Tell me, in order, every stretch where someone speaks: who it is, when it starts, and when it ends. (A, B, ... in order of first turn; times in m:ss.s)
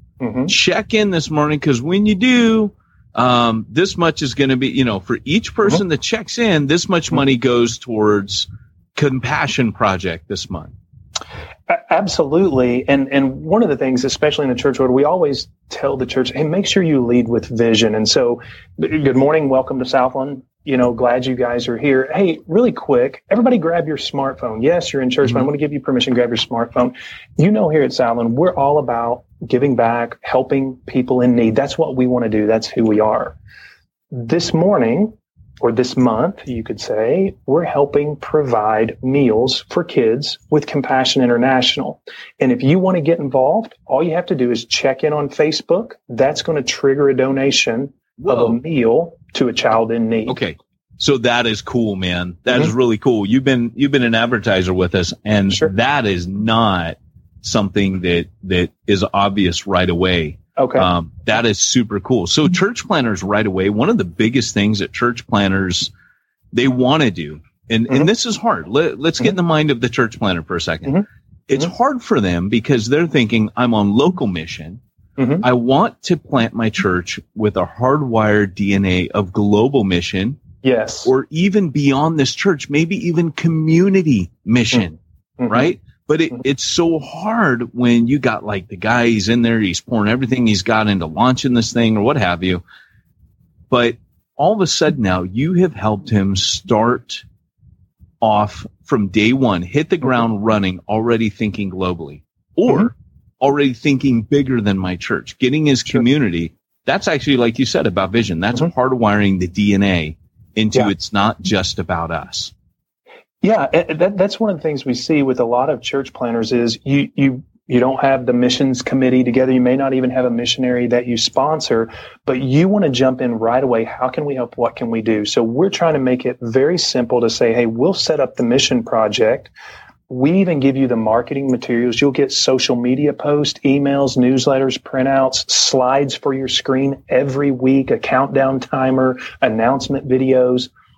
0:00.2-0:00.5 A
0:00.5-0:10.7 B
0:11.7-0:33.4 A
0:34.1-0:50.4 A
0:48.2-0:48.6 B
0:50.3-1:05.9 B
1:00.6-1:00.9 A
1:06.5-1:14.8 B
1:15.2-1:15.4 A
1:15.4-1:20.4 B
1:20.6-1:21.1 A
1:21.1-1:25.0 B
1:25.4-1:25.7 A
1:25.5-1:32.6 B
1:33.7-1:37.2 B
1:38.2-1:52.5 B
1:53.4-2:09.5 A
2:10.1-2:20.7 A